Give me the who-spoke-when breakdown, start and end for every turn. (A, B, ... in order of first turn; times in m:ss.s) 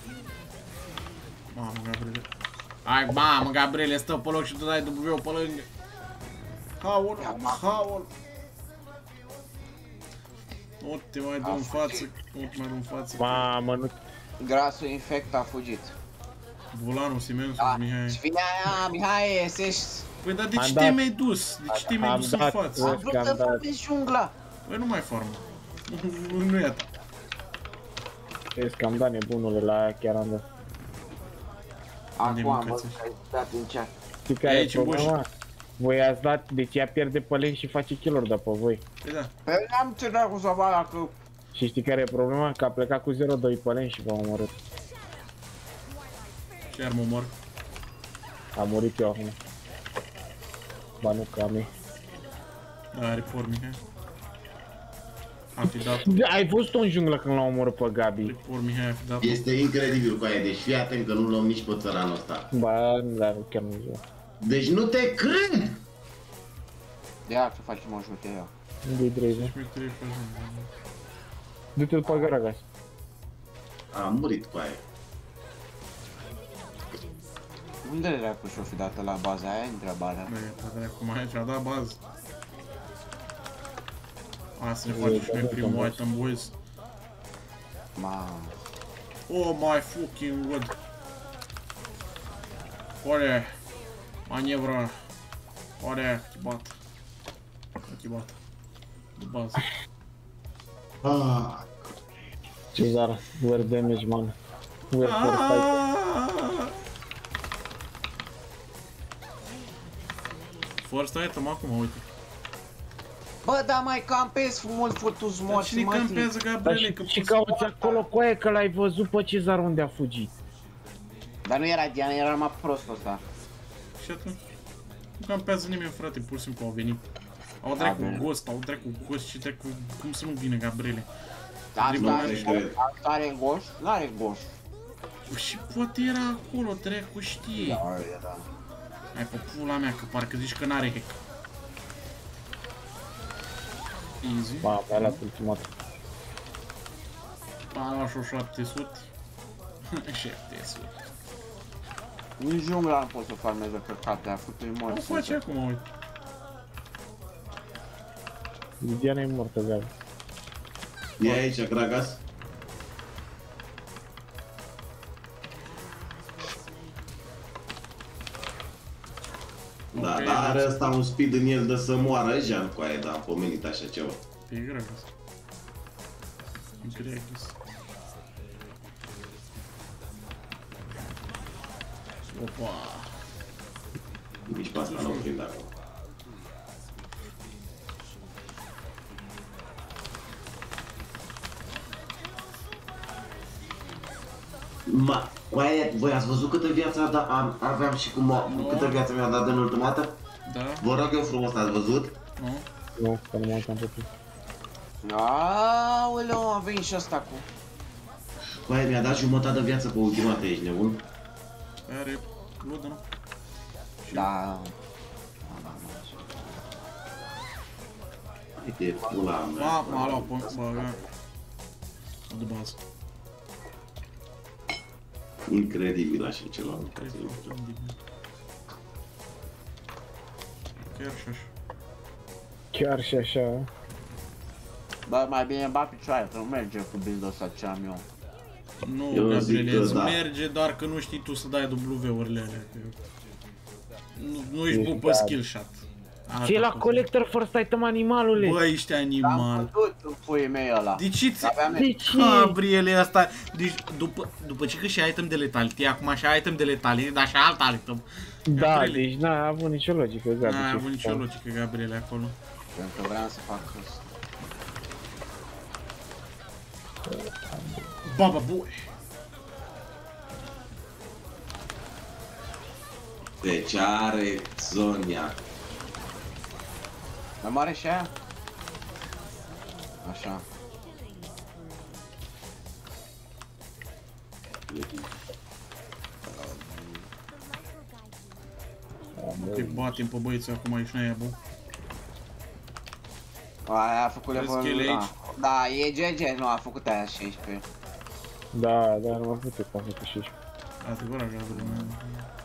0:01.5-0:02.3 A
0:02.9-0:05.7 A
0:06.8-0:08.1 A
0:07.2-0:07.6 B
0:10.8-0:13.5 A
0:11.4-0:12.1 B
0:13.2-0:14.0 C
0:14.4-0:15.9 B
0:16.7-0:18.2 A
0:17.6-0:20.1 B
0:20.2-0:23.0 A
0:20.6-0:21.0 C
0:22.0-0:23.6 C
0:22.8-0:24.3 B
0:24.6-0:26.9 A
0:28.6-0:30.4 C
0:32.2-0:33.9 B
0:32.2-0:33.0 A
0:34.3-0:35.2 C
0:34.4-0:35.2 A
0:35.8-0:38.8 C
0:39.0-0:39.3 A
0:39.5-0:41.1 B
0:41.6-0:44.5 C
0:46.7-0:47.3 A
0:48.6-0:49.4 C
0:51.0-0:51.7 C
0:52.9-0:53.8 A
0:55.5-0:56.2 A
0:55.7-0:58.4 C
0:58.2-0:59.5 A
0:59.2-1:02.5 D
1:02.5-1:04.0 C
1:04.4-1:05.8 D
1:07.3-1:08.5 B
1:08.8-1:09.5 C
1:09.2-1:10.7 A
1:11.8-1:12.6 C
1:13.9-1:14.8 D
1:17.8-1:20.3 B
1:20.3-1:22.0 A
1:24.6-1:26.5 A
1:24.9-1:26.0 C
1:28.0-1:28.5 B
1:29.3-1:30.7 A
1:33.0-1:33.5 A
1:34.3-1:34.9 A
1:35.8-1:36.8 A
1:37.9-1:38.4 A
1:39.2-1:39.7 A
1:41.0-1:41.8 D
1:42.7-1:44.3 C
1:44.9-1:45.8 C
1:45.0-1:46.7 A
1:50.8-1:52.0 A
1:53.4-1:56.3 B
1:55.5-1:57.4 A
1:56.6-2:00.3 C
1:57.5-1:58.0 B
2:01.4-2:03.2 B
2:04.0-2:04.4 A
2:05.2-2:07.0 A
2:07.6-2:11.1 A
2:07.8-2:08.3 B
2:11.8-2:14.5 B
2:11.8-2:12.6 A
2:11.8-2:12.8 D
2:15.3-2:17.8 A
2:17.6-2:18.5 B
2:19.1-2:21.2 A
2:24.2-2:25.2 A
2:24.6-2:25.6 C
2:27.7-2:29.1 A
2:29.9-2:31.1 A
2:32.4-2:35.4 B
2:34.9-2:35.9 A
2:38.8-2:39.9 C
2:41.2-2:42.2 D
2:49.9-2:54.2 D
2:50.0-2:50.9 A
2:54.5-2:55.1 A
2:56.8-2:57.6 A
3:02.3-3:03.2 A
3:04.5-3:05.7 D
3:04.7-3:05.3 A
3:14.9-3:20.2 D
3:18.5-3:19.1 A
3:20.4-3:20.9 A
3:20.8-3:22.2 D
3:22.4-3:22.7 A
3:23.0-3:24.1 C
3:25.0-3:27.5 B
3:28.7-3:31.0 D
3:31.9-3:33.0 A
3:34.1-3:34.7 B
3:35.5-3:36.6 B
3:38.6-3:40.4 D
3:39.0-3:39.4 B
3:39.6-3:41.0 A
3:40.5-3:41.0 B
3:42.3-3:42.8 A
3:45.5-3:47.4 D
3:46.6-3:48.0 A
3:50.8-3:51.5 A
3:52.7-3:53.7 C
3:55.1-3:58.1 B
3:58.8-4:03.0 A
3:59.1-4:00.2 D
4:04.1-4:07.0 A
4:04.7-4:05.4 C
4:06.4-4:08.6 C
4:08.4-4:09.7 A
4:09.2-4:11.9 B
4:10.9-4:19.0 A
4:11.7-4:12.6 C
4:18.5-4:21.2 C
4:20.4-4:22.4 A
4:22.8-4:24.0 B
4:27.1-4:27.9 C
4:28.0-4:28.8 A
4:33.4-4:35.4 D
4:37.4-4:38.1 B
4:40.0-4:40.4 B
4:44.7-4:45.0 D
4:49.2-4:50.0 C
4:49.4-4:51.4 A
4:53.7-4:57.6 B
4:54.3-4:55.1 A
4:58.5-5:00.3 C
5:00.8-5:02.3 A